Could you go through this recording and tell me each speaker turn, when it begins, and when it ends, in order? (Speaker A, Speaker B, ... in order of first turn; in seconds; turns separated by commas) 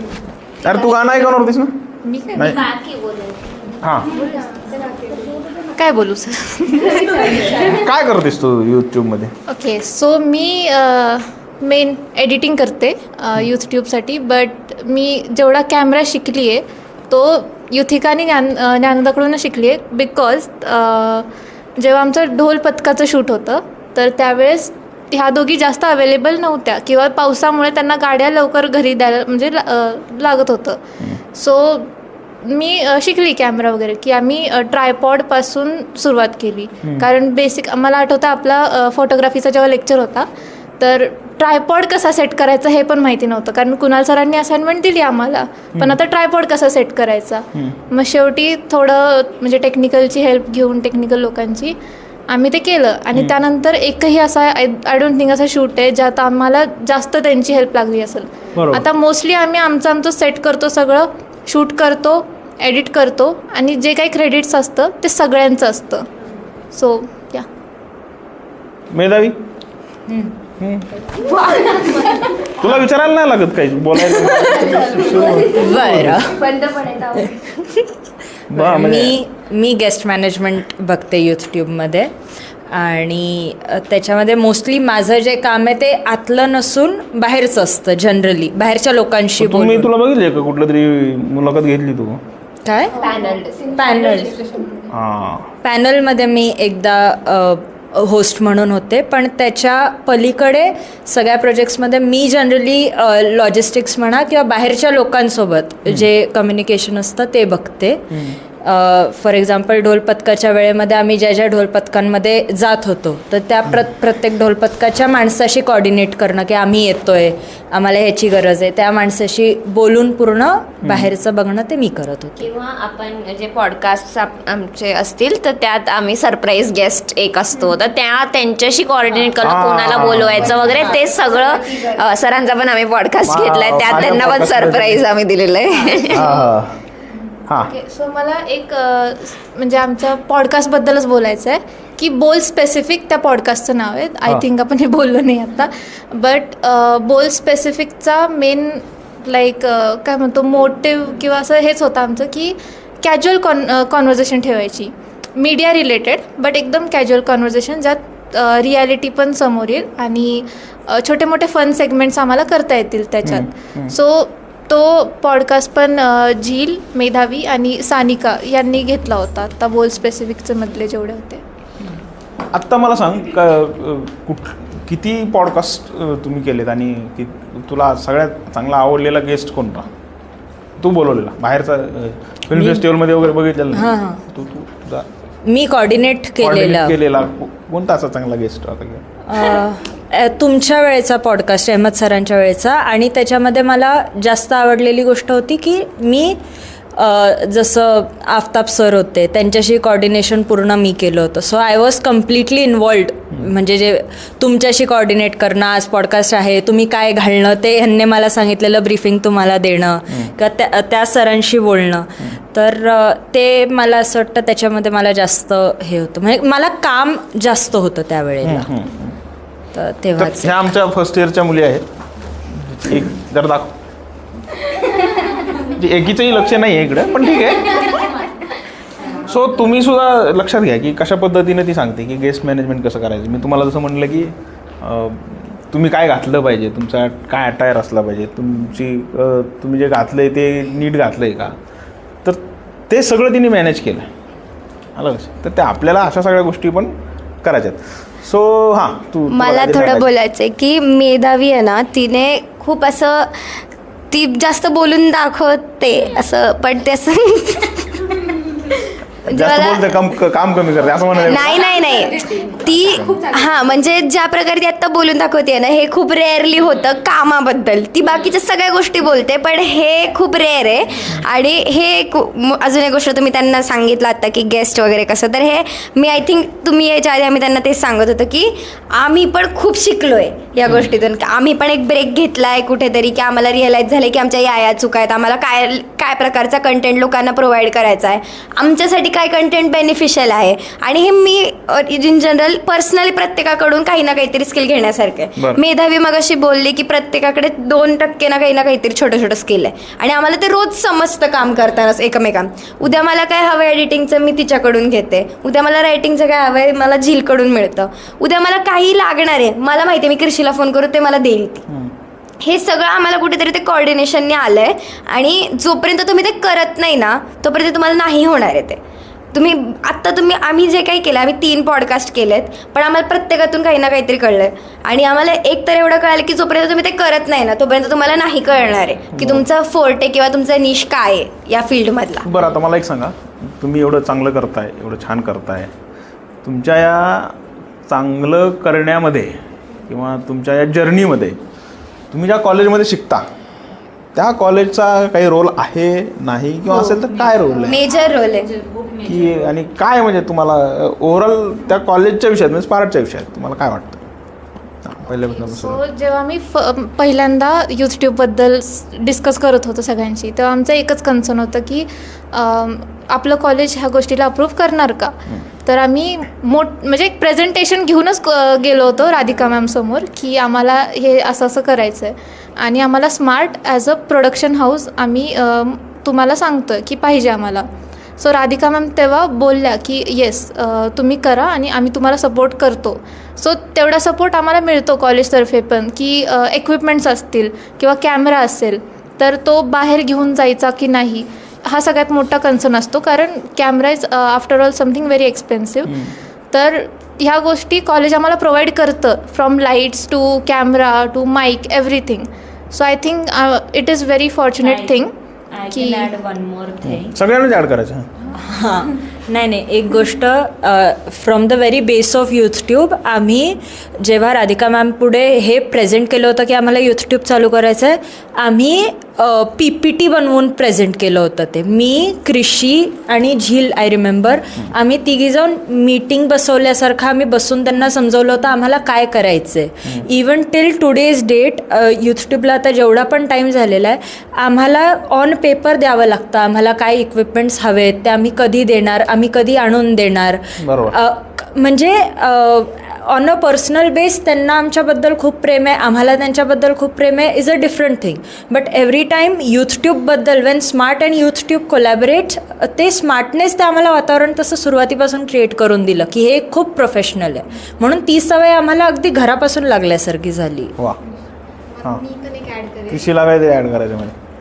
Speaker A: 0.6-1.8, Speaker B: 2.0-2.6, Speaker A: 2.3-2.7, Speaker C: 2.7-3.4, Speaker A: 3.8-4.1, Speaker D: 4.3-5.4, Speaker B: 5.7-7.7, Speaker A: 7.5-9.3, Speaker B: 9.5-30.8, Speaker B: 31.3-31.9, Speaker B: 32.4-40.3, Speaker B: 40.8-51.8, Speaker B: 52.3-66.1, Speaker A: 58.6-58.9, Speaker B: 66.7-67.5, Speaker A: 68.9-69.4, Speaker A: 70.6-70.9, Speaker E: 71.2-72.3, Speaker A: 72.6-76.3, Speaker F: 74.1-74.5, Speaker E: 74.5-77.3, Speaker F: 75.5-76.4, Speaker A: 78.5-79.2, Speaker F: 78.5-82.1, Speaker F: 82.7-89.9, Speaker A: 89.4-92.2, Speaker F: 92.7-93.1, Speaker E: 93.0-93.7, Speaker F: 93.7-94.4, Speaker A: 94.9-95.5, Speaker F: 95.6-122.5, Speaker A: 120.8-121.1, Speaker C: 122.4-136.3, Speaker A: 129.4-131.0, Speaker A: 133.2-135.0, Speaker A: 136.1-136.8, Speaker B: 137.6-171.4, Speaker A: 163.2-163.9, Speaker A: 172.5-179.9, Speaker A: 180.8-185.1, Speaker F: 182.5-182.8, Speaker F: 183.7-184.2, Speaker F: 185.5-187.0, Speaker A: 186.4-189.0, Speaker F: 189.3-196.4, Speaker F: 196.9-218.7, Speaker A: 218.4-219.2, Speaker F: 219.7-220.6, Speaker A: 220.2-221.9, Speaker A: 222.5-223.7, Speaker A: 225.6-228.0, Speaker A: 229.1-241.6, Speaker A: 242.2-244.1, Speaker A: 245.0-250.1, Speaker E: 249.3-258.7, Speaker E: 259.2-259.9, Speaker A: 259.3-261.8, Speaker E: 261.2-311.6, Speaker A: 262.7-263.1, Speaker D: 263.3-263.6, Speaker A: 280.6-280.9, Speaker A: 295.4-295.6, Speaker E: 312.4-318.8, Speaker E: 319.3-332.3, Speaker A: 329.1-329.5, Speaker A: 332.2-335.7, Speaker A: 336.4-339.4, Speaker A: 339.9-341.4, Speaker A: 342.1-343.3, Speaker A: 344.1-347.9, Speaker E: 347.6-348.6, Speaker F: 348.5-349.3, Speaker A: 349.1-354.0, Speaker A: 354.8-355.8, Speaker B: 355.4-396.0, Speaker A: 395.9-396.1, Speaker B: 396.5-405.1, Speaker F: 404.6-405.0, Speaker F: 405.5-407.1, Speaker B: 405.7-406.1, Speaker A: 406.8-408.1, Speaker F: 408.3-460.7, Speaker A: 440.6-441.0, Speaker D: 462.0-462.9, Speaker A: 462.9-464.1